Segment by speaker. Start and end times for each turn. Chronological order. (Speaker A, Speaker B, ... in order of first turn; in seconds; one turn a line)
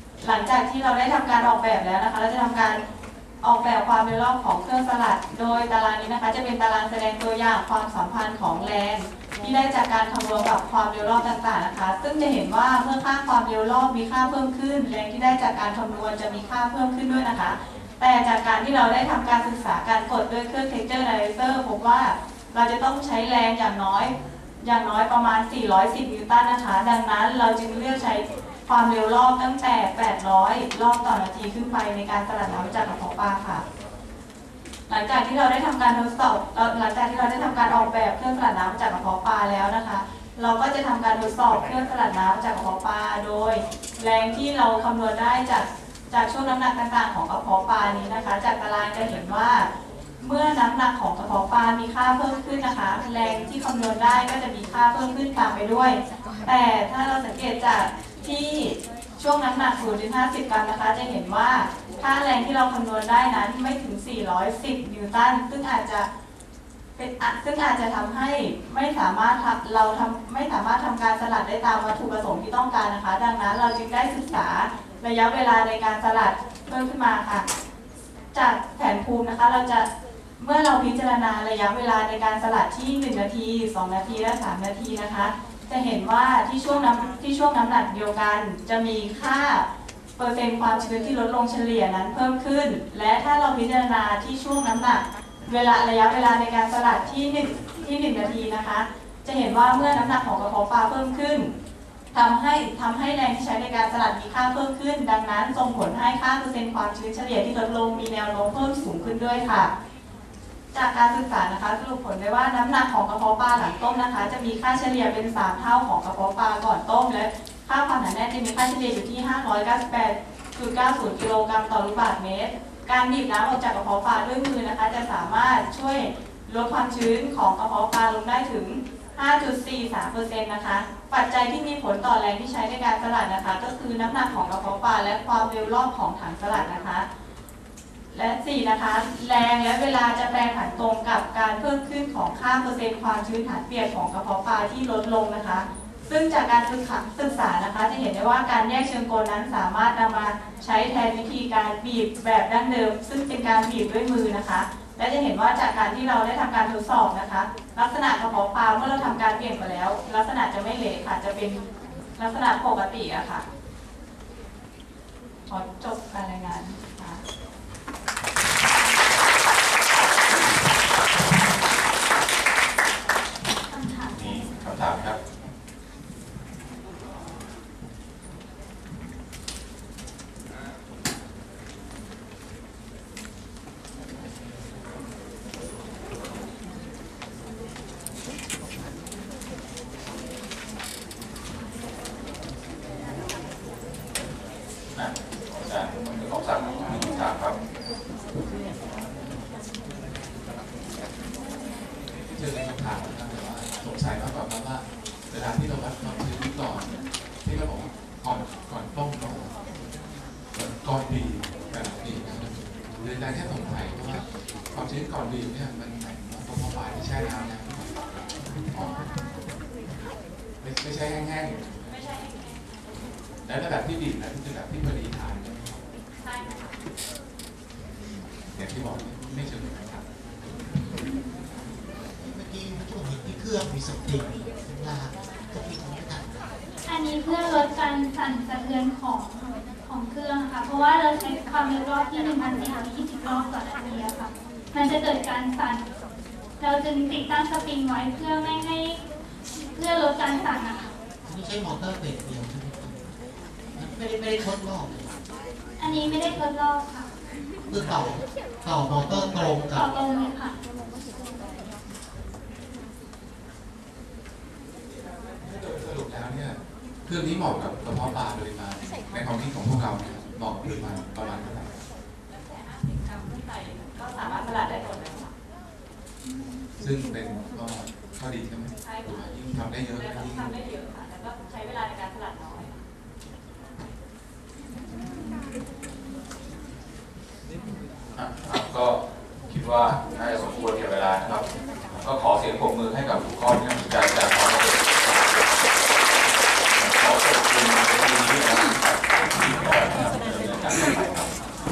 Speaker A: 0.2-2.8
Speaker A: 3.4-33.6
Speaker A: 34.9-49.7
Speaker A: 50.2-66.1
Speaker A: 67.0-77.5
Speaker A: 78.3-79.9
Speaker A: 80.4-89.6
Speaker A: 90.2-101.5
Speaker A: 102.1-109.7
Speaker A: 110.7-137.1
Speaker A: 138.1-161.6
Speaker A: 162.2-163.4
Speaker A: 165.5-167.2
Speaker B: 173.7-174.4
Speaker C: 174.1-175.2
Speaker C: 194.9-197.6
Speaker D: 202.3-209.6
Speaker D: 210.5-219.0
Speaker D: 220.6-221.9
Speaker A: 221.8-222.8
Speaker D: 223.4-225.8
Speaker A: 226.2-226.7
Speaker D: 228.5-230.0
Speaker E: 232.2-236.6
Speaker B: 236.8-245.8
Speaker B: 246.6-249.0
Speaker B: 249.7-250.9
Speaker E: 251.2-253.1
Speaker E: 253.7-255.1
Speaker B: 255.8-257.1
Speaker E: 257.7-259.9
Speaker B: 259.5-260.5
Speaker D: 265.4-271.8
Speaker A: 272.3-275.3
Speaker D: 276.8-280.6
Speaker A: 278.8-282.8
Speaker C: 288.1-291.4
Speaker C: 291.9-295.2
Speaker C: 296.8-301.3